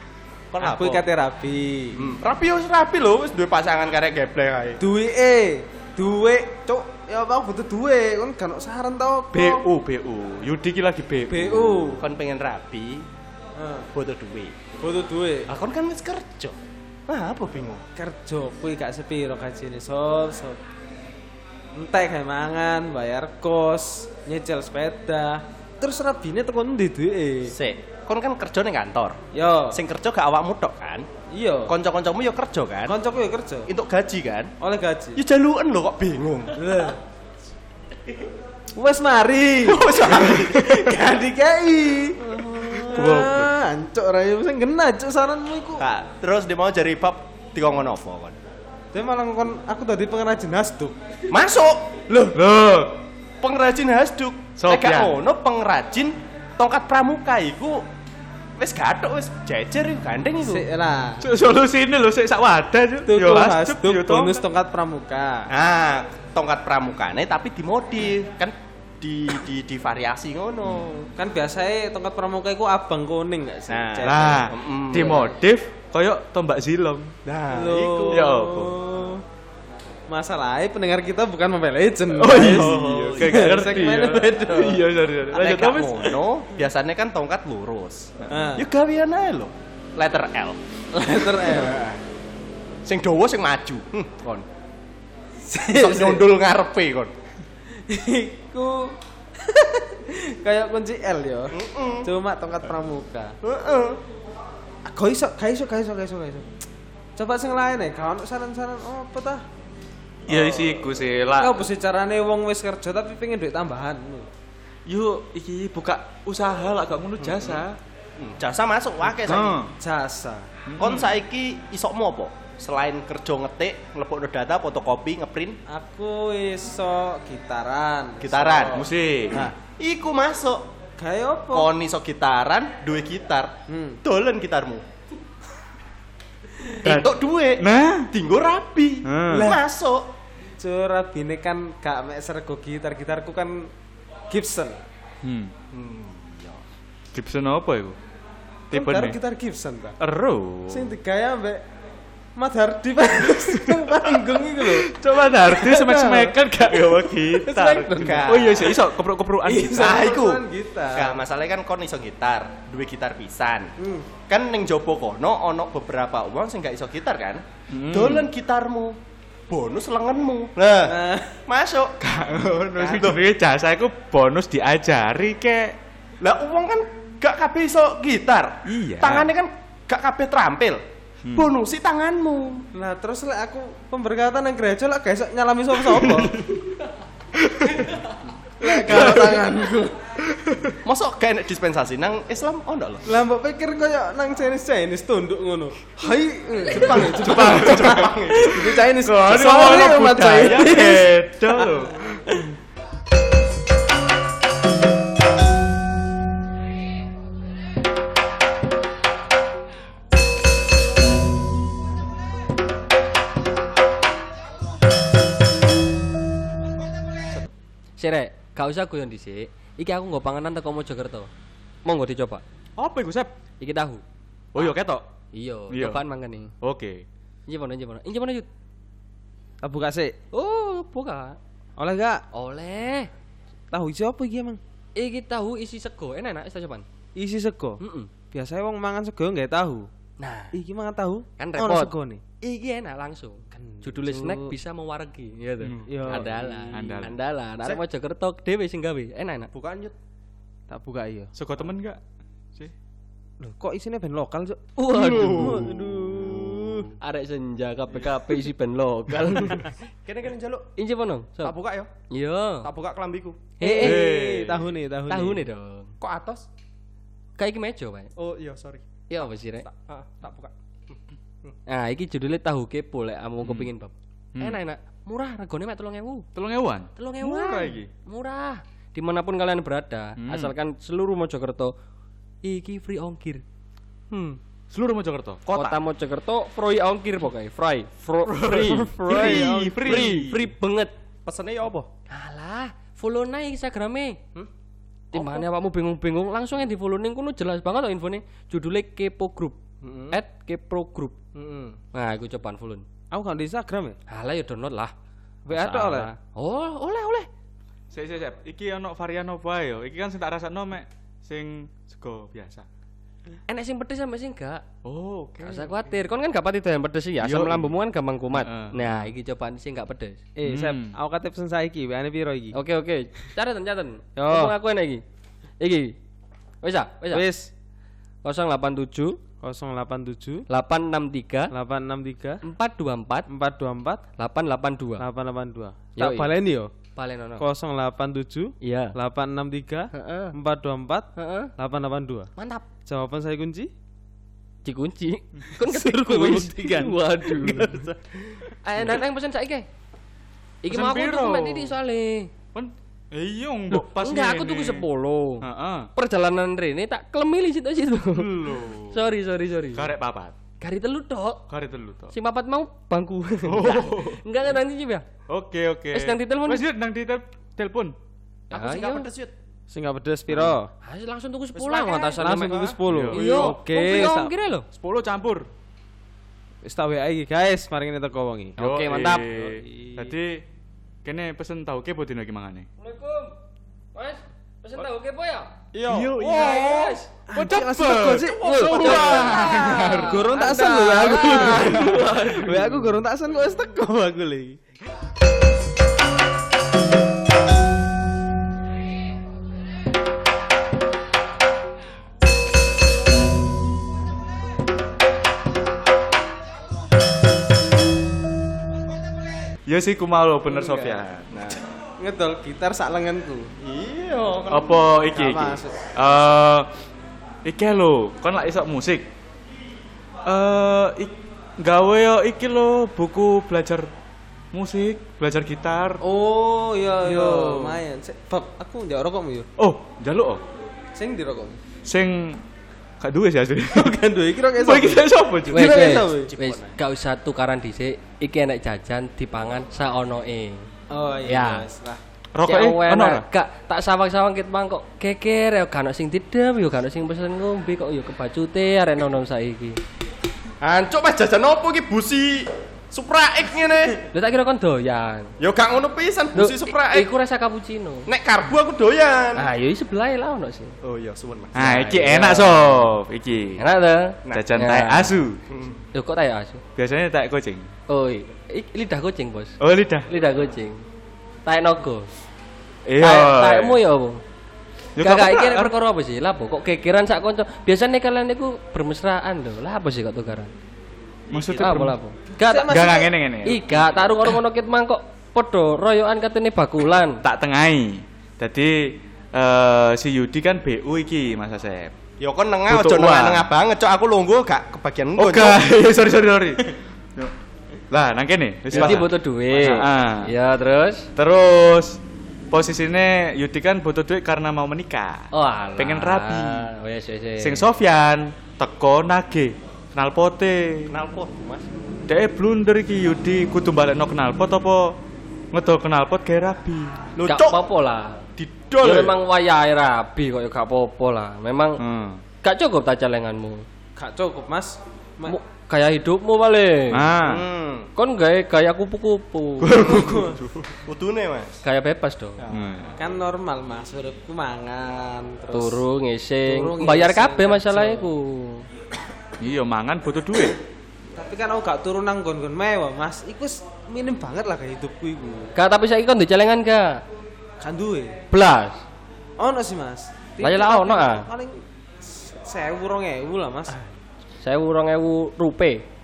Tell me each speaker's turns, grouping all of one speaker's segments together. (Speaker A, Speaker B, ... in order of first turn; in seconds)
Speaker A: 0.5-1.1, 1.9-4.8, 12.0-13.1, 13.9-14.6, 15.5-17.8, 27.5-29.2, 29.7-31.1, 31.7-33.0, 33.7-34.5, 35.1-36.6, 39.6-40.9, 42.2-43.1, 45.8-48.3, 51.3-52.4, 53.4-57.8, 58.6-60.7, 65.5-71.1, 73.7-75.2, 77.2-78.3, 82.4-83.4, 85.3-90.6, 91.4-92.0, 92.8-94.5, 95.7-97.1, 101.5-102.1, 103.4-104.0, 117.2-117.6, 118.2-119.6, 120.8-125.6, 128.2-130.7, 131.5-134.8, 136.8-140.1, 145.7-146.6, 159.8-163.7, 164.3-169.0, 169.5-171.9, 172.8-173.2, 176.2-182.6, 190.8-193.0, 196.7-198.7, 246.1-246.6, 249.5-249.9, 256.2-256.6, 260.0-260.7, 261.4-261.9, 262.6-263.5, 266.0-266.4, 268.1-268.8, 269.6-270.5, 288.9-290.4, 291.2-291.9, 299.8-300.1, 301.3-301.8, 368.5-369.3, 371.6-373.5, 385.7-386.9, 388.5-389.7, 411.3-411.6, 413.6-414.8, 435.9-436.7, 450.6-454.0, 455.4-457.1, 458.1-459.5, 460.8-461.9, 465.5-465.8, 481.3-481.7, 492.2-495.6, 498.7-499.0, 510.9-511.6, 517.1-517.6, 518.4-519.1, 527.2-527.9, 530.8-531.5
Speaker B: 0.6-2.0, 4.8-9.6, 11.3-12.0, 13.6-13.9, 14.8-15.5, 17.9-20.6, 21.7-27.5, 29.3-29.8, 31.3-31.7, 32.9-33.7, 34.6-35.2, 36.6-37.0, 38.7-45.8, 48.9-51.0, 60.4-61.2, 63.1-65.5, 71.2-75.3, 77.5-79.2, 80.1-84.8, 88.3-88.6, 90.9-91.8, 95.4-96.3, 97.9-103.3, 104.8-106.5, 107.2-109.4, 111.4-114.3, 119.8-120.5, 125.7-128.8, 131.0-131.7, 133.7-134.0, 140.6-143.7, 144.3-144.8, 148.7-149.9, 150.7-151.6, 152.3-158.9, 159.4-161.2, 163.8-164.1, 170.9-171.3, 182.7-186.4, 188.6-189.9, 193.1-202.4, 229.6-230.2, 231.8-232.2, 233.7-234.6, 237.1-239.9, 240.5-242.2, 243.5-244.5, 245.8-246.7, 250.7-251.3, 253.4-256.8, 263.6-265.5, 288.6-289.7, 303.1-304.0, 305.4-306.1, 320.4-322.6, 324.1-324.5, 327.1-327.5, 329.4-330.4, 331.5-332.4, 333.3-334.0, 335.0-336.7, 337.4-342.3, 342.9-343.7, 345.6-347.9, 369.7-370.7, 371.8-374.3, 376.6-378.6, 387.3-394.6, 410.5-411.0, 412.0-413.5, 415.1-416.3, 426.0-429.5, 430.9-431.6, 433.7-436.3, 440.9-442.0, 482.4-483.1, 524.0-525.4, 529.7-530.4, 533.0-535.8, 536.4-538.1, 541.1-545.5, 547.6-548.1, 549.4-553.9
Speaker C: 9.3-11.9, 42.9-43.5, 52.3-52.9, 54.6-55.1, 61.2-64.4, 74.0-77.1, 78.1-78.8, 82.1-86.2, 110.3-111.7, 114.8-117.8, 119.2-119.7, 120.7-121.1, 128.7-129.4, 136.8-138.1, 139.0-139.6, 145.2-145.5, 147.1-148.0, 148.7-149.2, 150.0-150.9, 153.4-160.1, 167.7-168.3, 172.0-175.8, 178.7-179.3, 185.9-186.5, 187.4-187.9, 188.7-189.5, 190.3-190.8, 197.3-197.9, 199.0-202.2, 222.8-223.3, 224.5-225.0, 225.7-226.0, 226.6-227.0, 245.6-246.2, 246.7-247.2, 251.3-252.0, 254.9-255.8, 263.8-264.7, 273.4-273.7, 276.3-277.9, 280.2-280.5, 284.7-285.7, 288.2-290.4, 307.9-312.6, 314.8-315.7, 317.2-317.7, 318.4-319.1, 320.4-320.9, 350.7-351.7, 352.5-354.8, 355.4-355.9, 358.1-359.0, 359.7-360.3, 361.5-362.1, 363.4-364.2, 365.3-367.9, 370.3-370.5, 372.9-373.2, 374.7-375.5, 378.6-380.4, 381.0-382.7, 385.9-390.3, 391.4-392.8, 409.7-411.3, 414.5-416.7, 417.4-419.0, 420.2-423.9, 424.5-426.0, 427.0-427.8, 429.6-430.4, 431.9-432.4, 433.0-433.9, 434.5-435.8, 442.3-443.2, 461.5-463.6, 464.3-465.4, 466.8-467.7, 469.6-470.1, 472.9-473.8, 474.9-475.7, 481.3-481.9, 482.7-484.4, 487.2-491.9, 492.7-493.4, 495.2-497.3, 497.9-500.3, 501.1-502.0, 502.5-506.6, 507.4-510.9, 512.1-514.9, 515.5-517.0, 521.8-522.2, 526.9-527.4, 529.6-530.7, 532.5-532.9, 539.4-540.6
Speaker D: 218.0-221.3, 221.8-222.4, 223.6-224.0, 225.3-226.5, 227.5-228.5, 230.3-231.4, 232.3-233.1, 234.9-236.8, 237.8-238.1, 240.2-240.5, 241.4-249.5, 254.8-255.9, 257.0-259.8, 260.8-261.5, 262.1-262.7, 263.6-264.0, 265.1-265.9, 267.4-268.1, 269.1-269.7, 271.7-276.3, 276.9-281.7, 282.4-283.4, 284.1-284.4, 285.5-290.9, 292.1-294.2, 295.1-299.6, 300.1-301.2, 301.9-302.8, 304.1-304.9, 305.5-307.3, 313.5-314.6, 315.4-320.2, 322.5-325.0, 325.6-325.9, 326.6-327.3, 328.2-329.2, 330.5-331.5, 332.4-333.3, 334.2-335.0, 336.0-336.3, 336.9-337.4, 338.6-338.9, 339.9-340.3, 341.1-341.5, 342.4-342.6, 344.6-347.9, 348.5-349.7, 350.6-352.3, 353.7-355.4, 355.9-358.3, 358.9-359.9, 360.6-361.4, 362.1-365.1, 365.9-366.6, 368.5-369.1, 370.8-374.7, 378.6-379.6, 382.8-383.3, 383.9-385.5, 386.2-387.1, 388.4-392.7, 435.5-440.6, 441.2-441.6, 442.5-449.8, 454.1-455.3, 456.3-458.1, 459.4-460.7, 461.6-462.9, 463.6-465.1, 465.9-466.6, 467.9-469.5, 470.1-470.8, 471.4-472.1, 473.0-474.2, 475.0-480.5, 481.6-482.7, 483.4-487.2, 498.7-501.1, 505.3-507.6, 517.2-518.2, 518.8-521.8, 522.4-523.6, 525.2-527.0, 528.0-530.1, 531.6-532.5, 535.5-538.6, 545.5-547.0, 548.3-548.8, 550.4-551.3, 554.4-555.8